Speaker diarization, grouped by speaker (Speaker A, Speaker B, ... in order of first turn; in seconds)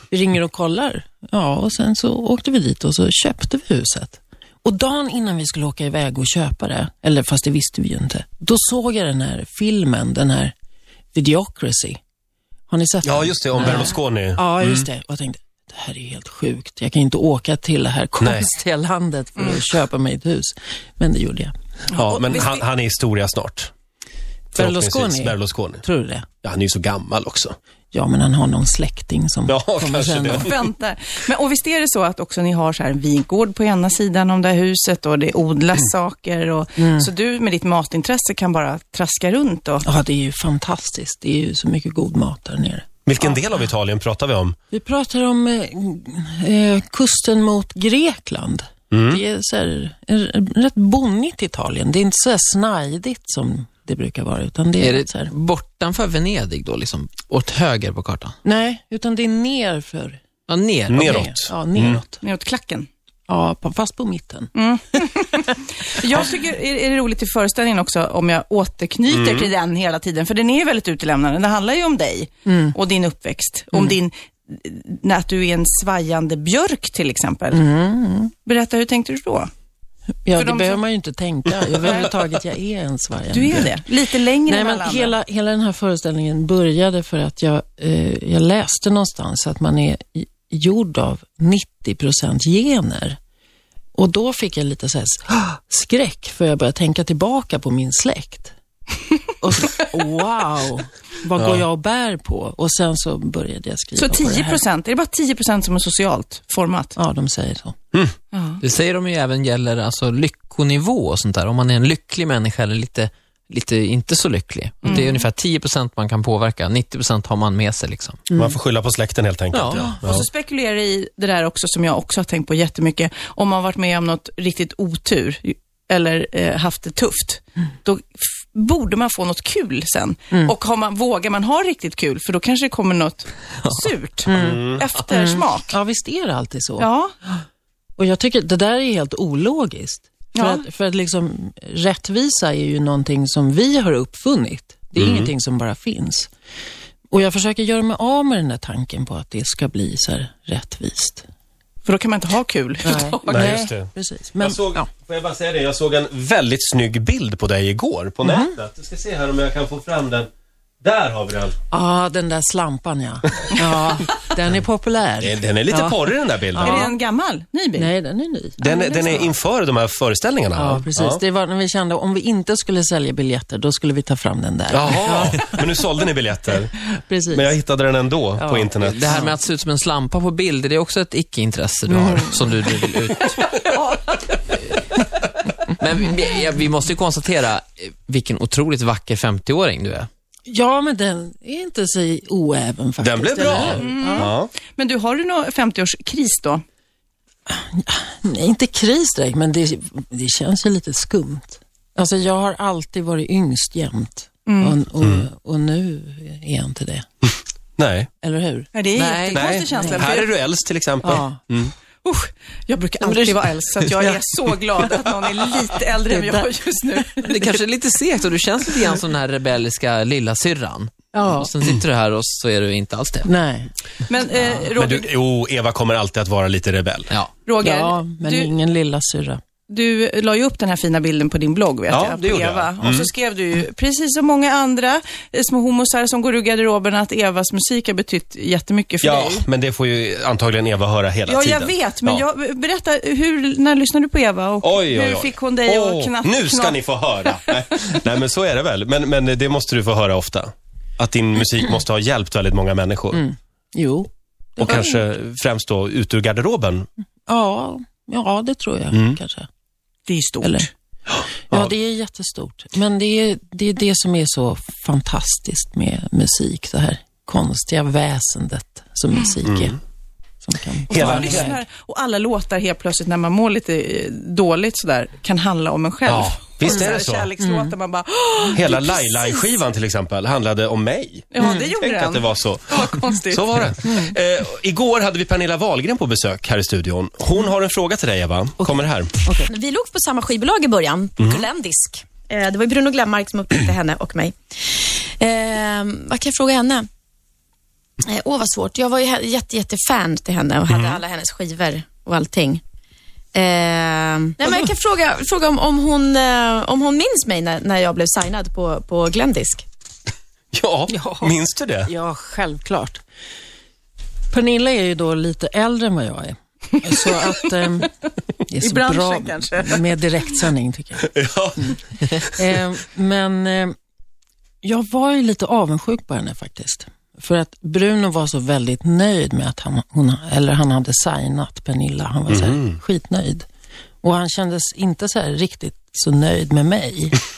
Speaker A: 0.1-10.5, 11.1-12.0, 12.7-21.5, 24.5-26.3, 27.9-30.5, 36.8-37.1, 39.8-43.3, 44.7-55.3, 58.4-60.2, 61.0-62.2, 63.3-64.5, 72.5-72.8, 77.5-78.3, 80.2-83.8, 84.4-93.2, 93.9-98.5, 99.4-104.6, 107.0-107.7, 134.2-137.4, 138.0-146.3, 147.1-151.2, 152.8-154.9, 158.2-158.5, 161.7-166.9, 167.7-169.2, 170.5-175.9, 176.8-177.6, 178.3-179.2, 181.9-182.4, 190.5-194.3, 197.5-207.3, 208.2-208.7, 209.7-210.1, 211.0-211.4, 213.0-213.4, 213.9-214.2, 214.8-215.1, 216.0-217.3, 221.1-221.5, 223.2-223.7, 227.6-229.4, 253.1-255.0, 257.3-259.5, 260.4-260.7, 261.5-269.8, 270.4-271.6, 276.6-277.7, 283.8-284.1, 288.6-289.5, 310.9-313.0, 314.3-317.9, 318.4-321.1, 322.3-323.7, 324.6-333.4, 334.0-337.2
Speaker B: 13.0-14.9, 18.2-18.4, 21.9-23.7, 24.6-25.8, 26.4-27.6, 29.5-30.5, 43.0-44.5, 48.9-49.2, 60.9-62.0, 69.1-69.5, 101.4-101.6, 118.3-120.2, 134.3-134.8, 145.0-145.3, 153.3-153.9, 154.4-160.3, 160.8-161.5, 165.2-166.9, 168.6-171.2, 174.7-176.7, 177.3-179.3, 193.0-194.5, 207.8-208.1, 209.3-211.7, 224.7-227.1, 231.9-233.1, 239.0-242.2, 244.6-253.2, 254.6-256.9, 258.9-259.2, 269.4-269.7, 270.9-271.5, 276.1-277.3, 278.5-289.1, 291.2-291.4, 300.7-301.0, 310.5-311.9, 321.1-322.2, 332.3-332.8
Speaker C: 21.9-22.6, 30.3-39.9, 62.2-62.9, 64.5-77.6, 78.4-79.5, 80.3-80.8, 81.8-82.1, 83.3-85.1, 104.0-106.9, 108.3-108.6, 114.8-115.2, 120.0-135.7, 136.8-137.1, 140.3-140.6, 151.8-153.6, 166.6-167.9, 193.5-196.6, 204.4-204.8, 208.7-210.3, 212.0-217.3, 224.1-225.1, 227.4-228.5, 229.7-239.4, 241.3-247.6, 260.1-260.7, 270.9-279.4, 281.3-283.7, 318.6-319.9
Speaker D: 54.8-58.3, 60.5-61.3, 108.6-118.3, 119.5-119.9, 178.8-183.7, 185.7-190.1, 208.9-209.6, 217.2-223.3
Speaker E: 289.4-296.9, 298.0-302.6, 303.3-309.6